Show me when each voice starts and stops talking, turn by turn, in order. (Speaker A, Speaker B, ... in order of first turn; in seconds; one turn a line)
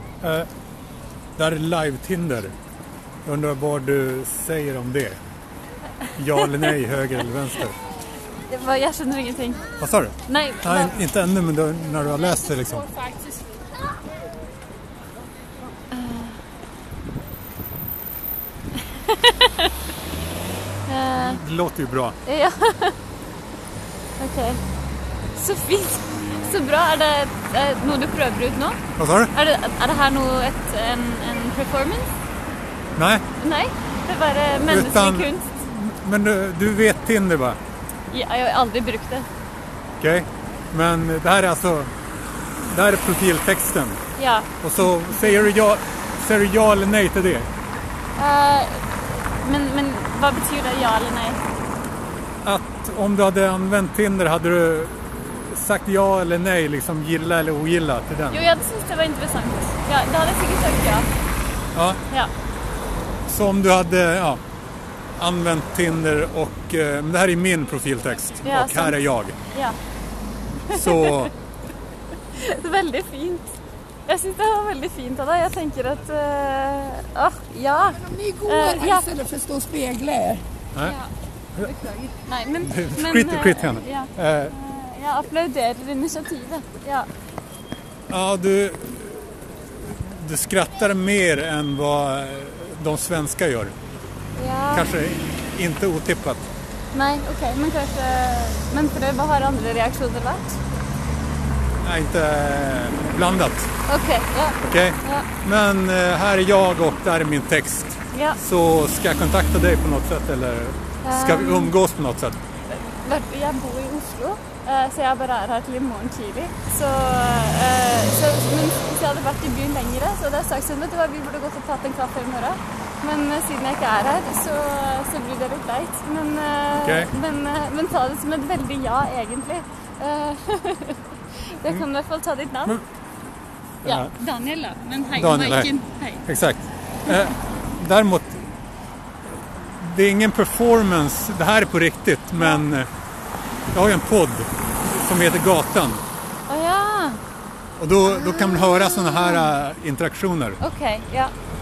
Speaker A: 0.2-0.5
Speaker A: 1.4-2.5
Speaker A: 3.2-5.2
Speaker A: 6.2-7.8
Speaker B: 6.3-6.8
Speaker B: 8.5-9.7
Speaker A: 9.8-12.9
Speaker B: 10.2-11.0
Speaker B: 15.9-16.3
Speaker B: 18.9-19.7
Speaker B: 20.9-21.4
Speaker A: 21.1-22.2
Speaker B: 22.2-23.0
Speaker B: 24.2-24.6
Speaker B: 25.3-28.8
Speaker A: 28.9-29.3
Speaker B: 29.3-32.1
Speaker A: 33.0-33.2
Speaker B: 33.4-35.6
Speaker A: 34.7-37.6
Speaker B: 38.1-39.3
Speaker A: 40.0-41.9
Speaker A: 42.6-44.0
Speaker B: 44.2-44.5
Speaker A: 44.6-47.5
Speaker B: 48.1-48.9
Speaker B: 49.4-51.4
Speaker A: 52.4-58.5
Speaker B: 58.3-61.1
Speaker A: 63.3-64.4
Speaker A: 65.2-69.4
Speaker B: 68.4-69.8
Speaker A: 70.7-71.3
Speaker B: 70.7-71.3
Speaker B: 72.3-73.5
Speaker B: 74.1-79.2
Speaker C: 78.2-80.4
Speaker B: 80.8-87.1
Speaker A: 82.6-84.5
Speaker A: 88.1-89.2
Speaker A: 89.8-93.7
Speaker B: 94.3-94.9
Speaker A: 94.7-96.5
Speaker B: 96.9-100.6
Speaker A: 101.8-103.7
Speaker B: 103.9-105.3
Speaker A: 104.6-112.4
Speaker B: 108.1-108.4
Speaker B: 111.0-111.7
Speaker B: 112.7-131.1
Speaker A: 126.8-127.1
Speaker B: 131.6-132.8
Speaker A: 133.8-134.1
Speaker B: 133.8-136.2
Speaker A: 135.2-135.7
Speaker A: 136.2-138.4
Speaker A: 139.5-142.9
Speaker B: 142.3-142.7
Speaker A: 143.7-146.0
Speaker B: 146.5-147.2
Speaker A: 147.8-150.6
Speaker B: 148.0-149.5
Speaker B: 150.6-151.3